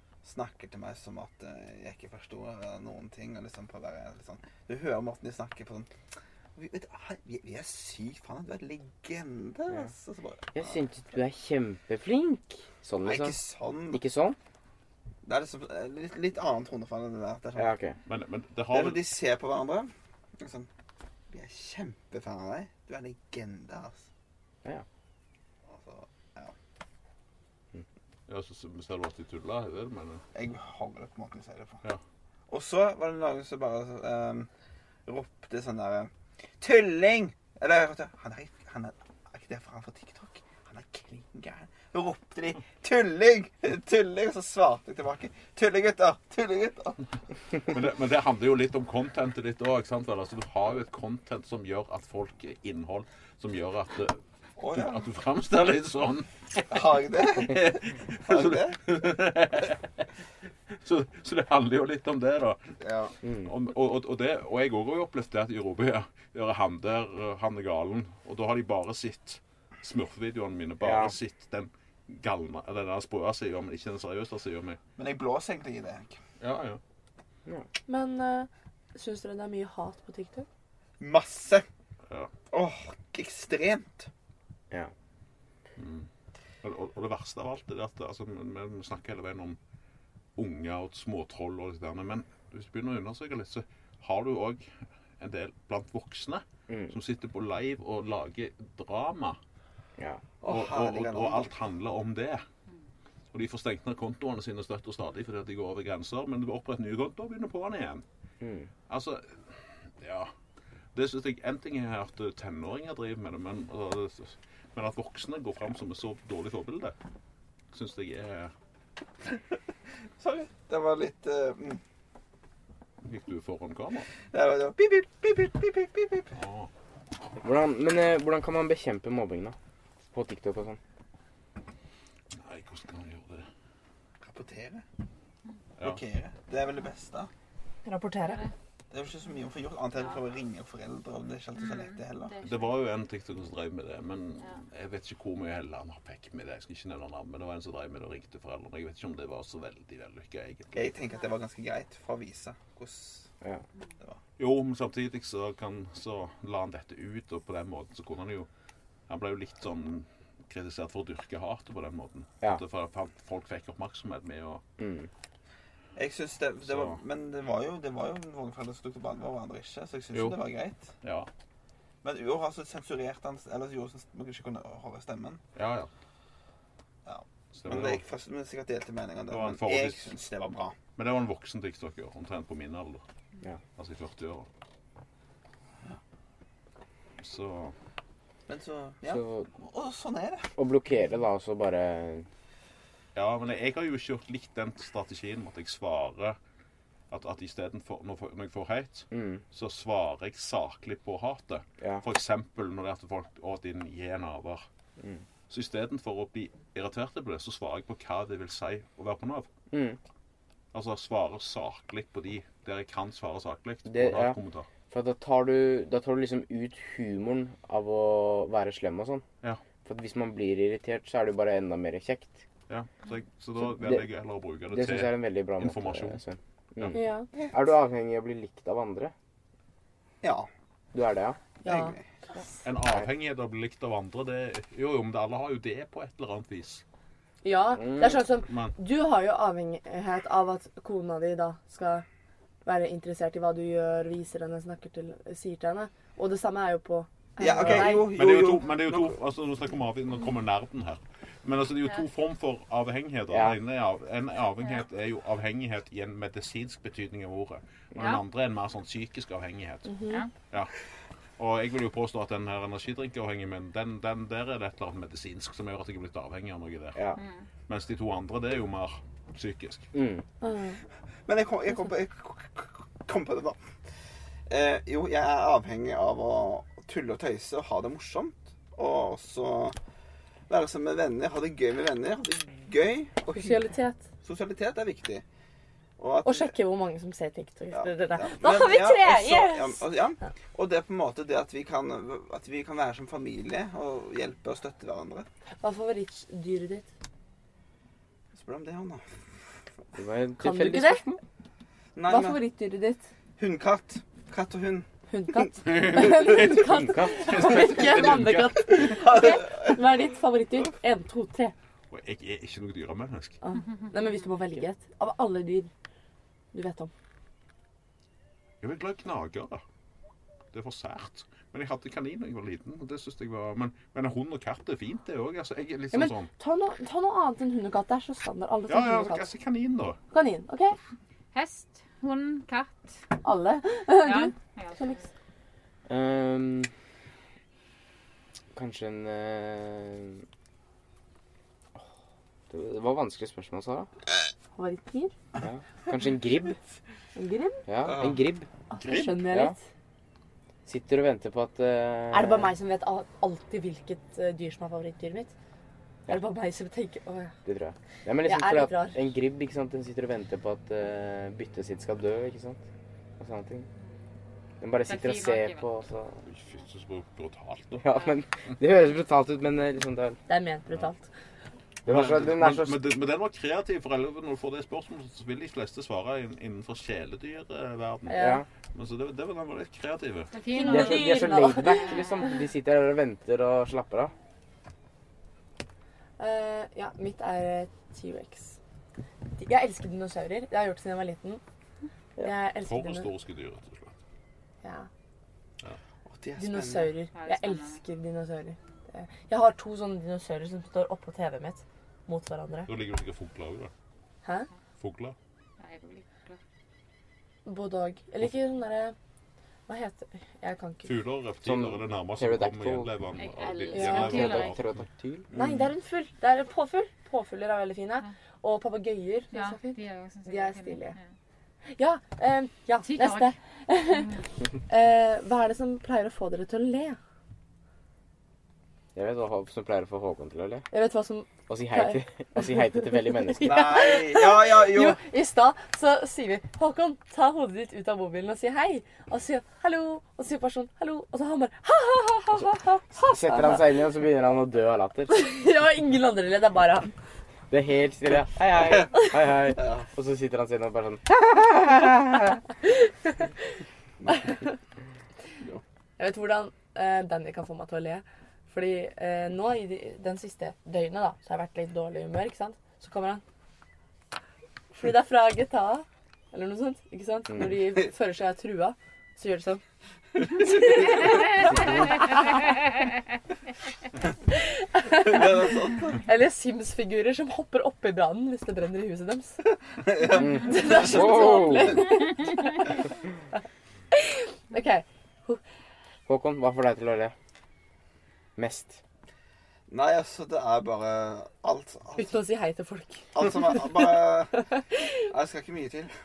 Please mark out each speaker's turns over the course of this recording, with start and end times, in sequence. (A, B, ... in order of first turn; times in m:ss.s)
0:00.2-0:05.9 A
0:06.6-0:10.8 A
0:10.5-0:13.4 B
0:13.0-0:14.0 A
0:13.9-0:14.4 B
0:15.2-0:17.7 A
0:17.6-0:18.0 B
0:18.1-0:19.0 C
0:18.7-0:20.7 A
0:21.3-0:24.1 A
0:25.7-0:26.6 A
0:28.3-0:30.2 C
0:30.3-0:31.8 A
0:32.5-0:34.5 A
0:35.1-0:47.0 A
0:47.6-0:54.2 C
0:54.6-0:55.0 A
0:54.7-0:56.8 C
0:56.7-0:58.8 A
0:57.4-0:59.9 C
1:00.8-1:02.6 C
1:02.8-1:03.1 A
1:03.2-1:03.5 B
1:03.4-1:14.8 C
1:10.8-1:11.2 B
1:15.0-1:16.2 A
1:16.4-1:16.8 C
1:17.9-1:20.5 D
1:21.0-1:21.6 A
1:22.5-1:24.1 A
1:25.8-1:26.1 C
1:26.6-1:29.6 C
1:30.4-1:39.4 C
1:40.0-1:40.2 B
1:40.4-1:41.5 A
1:40.4-1:42.4 C
1:43.3-1:48.0 C
1:48.4-1:48.7 B
1:48.9-1:50.3 C
1:50.9-1:56.9 C
1:57.7-1:58.5 C
2:00.2-2:01.8 A
2:03.0-2:04.1 C
2:04.3-2:06.3 A
2:06.4-2:06.7 C
2:07.4-2:09.6 B
2:10.1-2:10.8 B
2:12.3-2:13.4 C
2:14.2-2:14.8 A
2:15.8-2:17.3 A
2:17.8-2:18.4 D
2:18.9-2:22.4 A
2:21.6-2:22.7 E
2:22.4-2:30.9 C
2:30.7-2:33.3 A
2:34.4-2:38.5 C
2:39.1-2:44.6 C
2:44.8-2:45.1 B
2:46.0-2:50.9 A
2:46.6-2:47.0 C
2:50.1-2:50.4 C
2:51.0-2:51.3 C
2:52.0-2:55.4 A
2:55.6-2:55.9 C
2:57.1-3:00.7 A
2:57.6-2:58.0 C
2:59.3-3:00.2 C
3:01.0-3:03.0 C
3:03.8-3:04.5 C
3:07.2-3:07.7 C
3:08.5-3:10.5 A
3:09.1-3:09.5 B
3:10.6-3:12.3 B
3:13.1-3:16.4 C
3:17.1-3:24.6 C
3:19.1-3:19.4 B
3:25.5-3:29.5 C
3:29.7-3:30.0 B
3:30.7-3:34.7 C
3:33.9-3:34.4 B
3:34.9-3:39.2 B
3:39.8-3:42.4 B
3:42.7-3:46.2 C
3:43.6-3:44.1 B
3:44.7-3:49.1 B
3:46.9-3:47.3 D
3:50.2-3:50.5 A
3:50.9-3:51.4 B
3:51.6-3:51.9 D
3:51.6-3:52.0 A
3:52.6-3:56.8 C
3:57.4-4:02.0 D
3:57.8-3:58.1 B
3:58.4-3:58.7 C
4:02.6-4:08.1 D
4:07.4-4:09.2 A
4:07.6-4:20.0 C
4:13.3-4:13.6 B
4:19.9-4:20.2 D
4:21.4-4:27.1 C
4:27.2-4:27.4 E
4:27.7-4:29.9 C
4:29.9-4:30.2 B
4:30.4-4:30.8 D
4:31.3-4:33.6 A
4:34.5-4:39.8 A
4:40.5-4:43.6 A
4:43.4-4:44.1 D
4:44.2-4:45.2 A
4:46.0-4:46.5 A
4:46.2-4:49.8 D
4:47.7-4:55.3 A
4:55.6-4:56.9 D
4:58.3-4:59.1 A
5:00.0-5:01.2 B
5:00.4-5:01.1 D
5:01.9-5:02.4 A
5:02.1-5:03.0 D
5:03.4-5:04.9 A
5:05.1-5:11.5 D
5:05.6-5:08.9 C
5:06.7-5:07.7 B
5:08.7-5:09.8 A
5:11.9-5:13.4 C
5:13.4-5:15.7 D
5:16.5-5:16.9 D
5:18.6-5:19.6 C
5:20.5-5:26.3 C
5:25.9-5:29.2 D
5:28.7-5:30.0 C
5:30.1-5:30.8 D
5:31.3-5:32.9 E
5:33.2-5:35.0 D
5:34.0-5:35.1 E
5:35.9-5:36.7 B
5:38.6-5:40.2 B
5:42.5-5:43.9 B
5:44.6-5:45.1 D
5:45.4-5:46.6 B
5:47.2-5:47.6 D
5:47.7-5:48.5 B
5:47.8-5:48.2 A
5:48.7-5:49.6 D
5:48.8-5:49.2 C
5:49.3-5:49.6 B
5:50.6-5:52.5 B
5:52.1-5:55.3 D
5:56.1-5:57.3 D
5:57.4-6:02.6 B
5:58.2-5:59.0 D
6:03.2-6:03.7 B
6:04.6-6:06.2 B
6:04.9-6:05.7 E
6:06.2-6:07.8 C
6:07.8-6:10.2 B
6:10.3-6:11.1 D
6:11.8-6:12.8 B
6:11.9-6:20.3 C
6:18.1-6:18.4 D
6:18.2-6:18.4 B
6:20.3-6:22.2 E
6:20.5-6:22.0 D
6:20.7-6:24.1 B
6:26.2-6:28.6 D
6:29.4-6:31.4 D
6:32.2-6:33.1 D
6:32.7-6:33.9 C
6:34.6-6:34.9 D
6:36.1-6:36.9 A
6:36.4-6:42.7 D
6:37.1-6:37.8 E
6:42.7-6:43.7 C
6:44.8-6:45.2 C
6:45.6-6:46.4 E
6:47.4-6:48.9 D
6:49.7-6:50.9 D
6:50.8-6:54.7 C
6:51.4-6:52.9 B
6:53.2-6:54.6 E
6:53.7-6:54.3 D
6:53.9-6:55.3 B
6:55.3-6:55.6 A
6:55.3-7:01.0 D
6:59.3-7:01.0 E
7:01.8-7:04.1 D
7:02.8-7:03.3 E
7:04.7-7:07.0 D
7:08.9-7:10.6 B
7:10.7-7:23.7 D
7:11.5-7:13.6 B
7:13.4-7:15.0 A
7:22.9-7:25.1 B
7:25.1-7:26.9 D
7:27.5-7:32.4 B
7:34.1-7:34.5 D
7:36.0-7:43.2 D
7:44.7-7:49.6 D
7:50.4-7:51.7 D
7:54.5-7:55.4 D
7:54.9-7:56.0 A
7:56.0-7:59.4 D
7:59.8-8:01.6 A
8:00.2-8:02.7 D
8:00.2-8:01.9 B
8:03.9-8:05.4 D
8:06.1-8:07.1 B
8:08.4-8:08.8 B
8:09.7-8:12.2 A
8:12.0-8:13.4 D
8:13.1-8:14.4 A
8:15.1-8:15.9 A